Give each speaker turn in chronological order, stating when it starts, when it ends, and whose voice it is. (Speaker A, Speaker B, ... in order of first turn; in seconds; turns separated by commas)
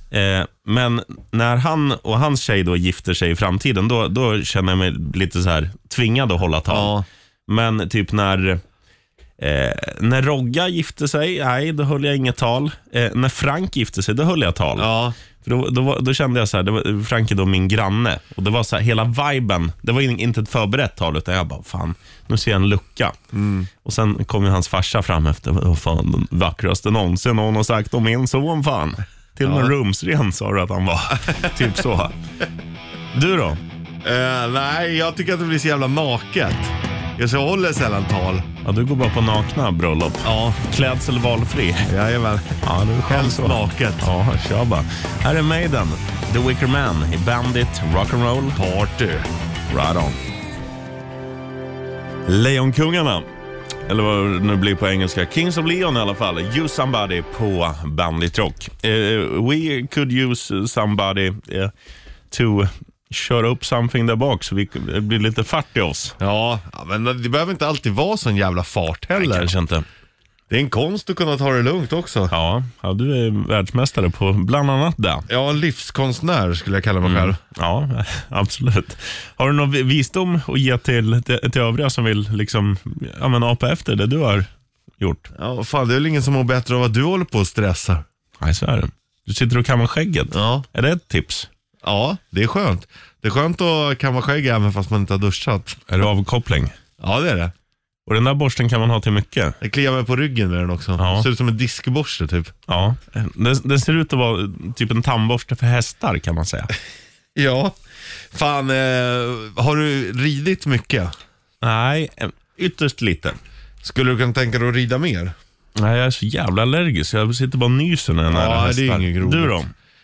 Speaker A: 0.1-6.9, Speaker B: 6.7-7.0, Speaker A: 7.5-8.6, Speaker A: 9.4-14.9, Speaker B: 14.8-15.2, Speaker A: 15.4-23.1, Speaker B: 23.3-23.7, Speaker A: 23.8-32.1, Speaker B: 29.4-29.7, Speaker A: 33.1-33.6, Speaker B: 34.0-38.5, Speaker A: 38.6-41.9, Speaker B: 40.2-40.6, Speaker B: 41.9-44.1, Speaker A: 42.6-48.6, Speaker B: 48.5-49.3, Speaker A: 49.7-50.2, Speaker A: 52.3-53.3, Speaker A: 53.9-61.7, Speaker A: 62.3-66.2, Speaker B: 66.2-69.5, Speaker A: 69.2-69.8, Speaker B: 70.5-72.3, Speaker A: 72.3-75.2, Speaker B: 75.3-77.4, Speaker A: 77.0-85.3, Speaker B: 85.4-88.0, Speaker A: 88.4-91.5, Speaker B: 90.3-90.7, Speaker B: 91.8-95.9, Speaker A: 95.9-96.7, Speaker B: 97.0-97.5, Speaker A: 98.1-99.6, Speaker B: 99.6-102.5, Speaker A: 101.0-101.3, Speaker A: 102.7-106.7, Speaker B: 107.4-107.8, Speaker B: 108.3-111.1, Speaker A: 111.6-113.4, Speaker B: 113.8-115.3, Speaker A: 115.8-119.7, Speaker B: 118.3-119.6